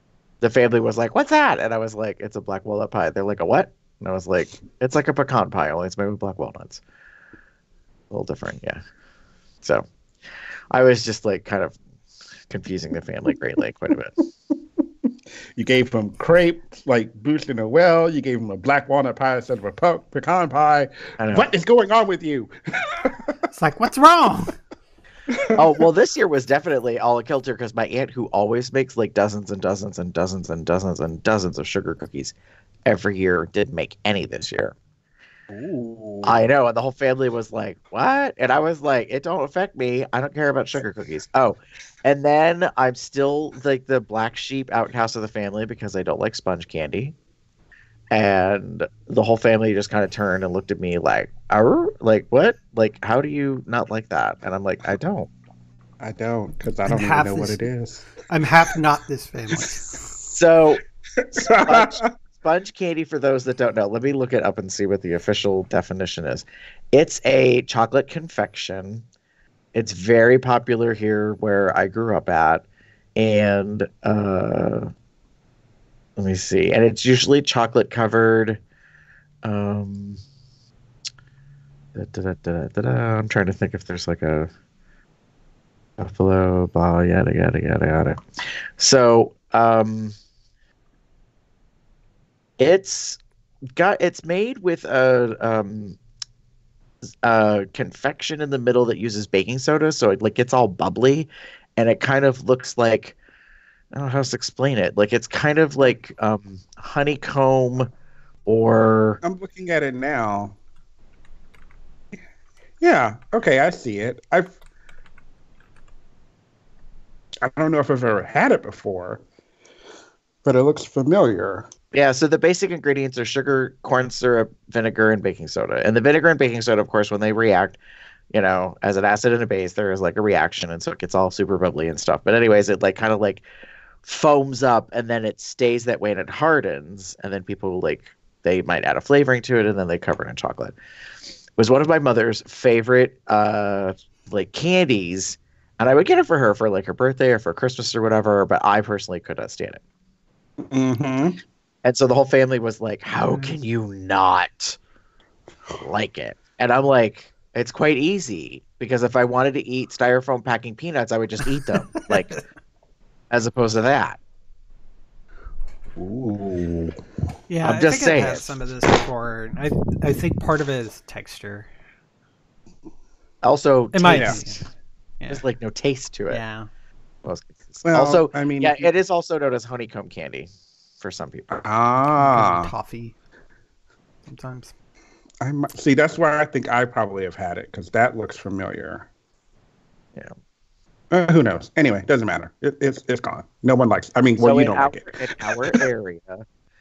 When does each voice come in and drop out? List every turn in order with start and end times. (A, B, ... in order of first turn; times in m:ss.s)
0:00.4-0:06.8 A
0:08.1-0:08.8 A
0:10.7-0:11.7 A
0:12.5-0:14.2 A
0:15.6-0:23.4 B
0:21.2-0:21.5 A
0:23.5-0:24.5 C
0:25.3-0:25.8 B
0:25.5-0:32.3 A
0:32.8-0:34.7 A
0:35.5-0:36.3 B
0:36.2-0:47.1 A
0:48.1-0:55.3 A
0:56.0-0:58.1 B
0:56.8-0:57.7 C
0:58.3-1:00.0 C
1:00.3-1:00.8 A
1:01.2-1:02.1 B
1:01.4-1:09.0 A
1:09.7-1:12.6 A
1:13.2-1:14.9 A
1:16.2-1:18.6 A
1:19.4-1:20.2 A
1:21.9-1:24.5 A
1:26.0-1:30.1 A
1:32.6-1:33.2 A
1:33.8-1:36.0 A
1:37.2-1:43.1 A
1:43.9-1:47.9 A
1:48.4-1:49.2 A
1:49.2-1:50.6 B
1:52.8-1:54.5 B
1:57.4-1:59.2 B
2:00.4-2:01.7 B
2:01.9-2:07.8 A
2:08.3-2:13.4 A
2:14.0-2:20.7 A
2:21.6-2:29.8 A
2:30.6-2:31.4 B
2:31.8-2:34.8 A
2:33.3-2:33.5 C
2:35.8-2:42.4 A
2:43.3-2:44.2 A
2:46.0-2:47.0 B
2:47.5-2:51.7 C
2:47.6-2:48.5 A
2:53.4-2:54.5 A
2:53.9-2:54.6 C
2:54.1-2:54.4 B
2:55.3-2:56.4 A
2:56.3-2:56.7 C
2:57.2-3:00.5 A
2:57.8-2:58.9 B
3:01.0-3:01.5 A
3:01.5-3:02.7 B
3:02.2-3:03.1 C
3:04.3-3:04.7 C
3:05.4-3:09.1 B
3:11.1-3:15.8 B
3:14.4-3:16.4 A